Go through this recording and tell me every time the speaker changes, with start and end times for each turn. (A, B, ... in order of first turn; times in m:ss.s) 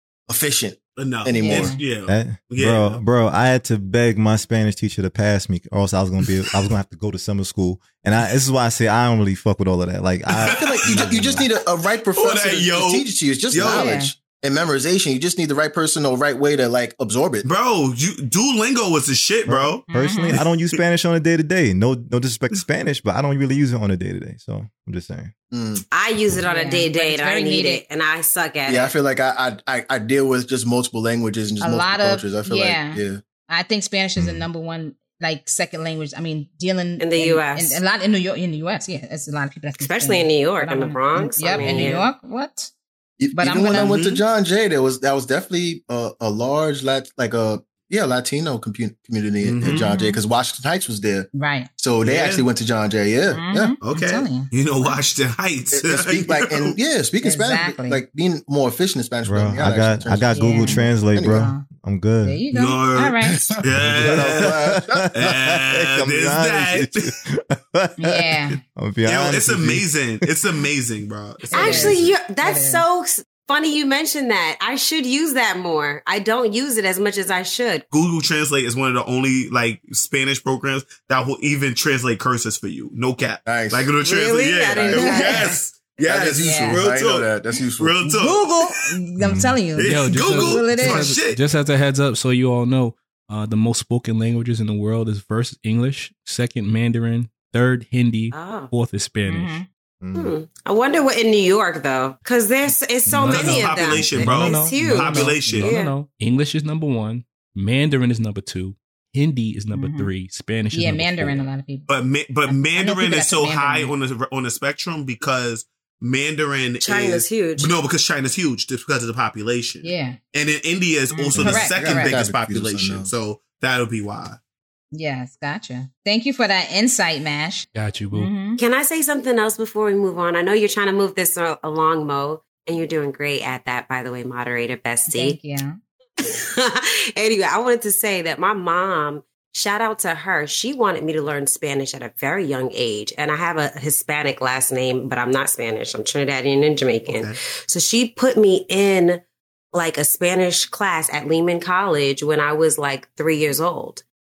0:00.3-0:01.7 A
0:01.0-0:03.0 B
0:01.4-0:01.8 C
0:02.1-0:11.4 D
0:10.4-0:11.5 B
0:10.6-0:17.4 A
0:12.1-0:14.0 B
0:13.6-0:14.1 C
0:17.4-0:20.8 B
0:19.5-0:25.3 D
0:19.9-0:20.4 C
0:25.5-0:25.8 A
0:25.9-0:28.9 E
0:26.4-0:27.8 C
0:28.6-0:33.2 A
0:31.6-0:42.7 C
0:34.2-0:34.5 D
0:37.0-0:37.8 E
0:39.8-0:42.1 E
0:43.2-0:53.7 A
0:43.3-0:44.0 C
0:43.7-0:44.2 B
0:49.4-0:49.9 B
0:49.6-0:50.2 C
0:51.3-0:51.7 C
0:52.0-0:52.4 B
0:53.3-0:55.0 C
0:53.8-0:56.7 B
0:55.7-1:01.5 A
0:57.2-0:58.0 C
0:59.2-1:02.4 D
1:00.3-1:01.7 C
1:02.2-1:03.4 C
1:02.5-1:04.6 B
1:03.4-1:05.1 A
1:03.8-1:10.0 D
1:05.1-1:06.9 B
1:08.0-1:08.6 C
1:09.0-1:12.2 B
1:11.5-1:12.8 C
1:11.5-1:17.8 E
1:17.9-1:28.7 B
1:23.4-1:23.9 A
1:24.0-1:25.6 E
1:24.8-1:25.0 A
1:24.9-1:25.5 C
1:26.0-1:28.0 A
1:26.4-1:26.8 C
1:28.0-1:31.1 C
1:29.2-1:29.6 D
1:29.8-1:31.4 B
1:29.8-1:39.6 F
1:38.3-1:38.7 E
1:39.2-1:39.6 C
1:40.0-1:40.3 D
1:40.1-1:45.9 E
1:43.1-1:51.5 F
1:43.2-1:45.7 B
1:49.7-1:50.1 C
1:50.7-1:51.9 C
1:51.9-2:04.4 B
1:52.5-1:53.9 C
1:56.8-1:57.7 E
1:59.8-2:00.2 C
2:01.1-2:02.2 C
2:01.4-2:03.1 A
2:04.9-2:08.6 C
2:07.7-2:08.3 F
2:08.6-2:15.4 E
2:15.1-2:15.8 C
2:16.2-2:29.2 E
2:27.1-2:27.4 B
2:29.7-2:34.0 E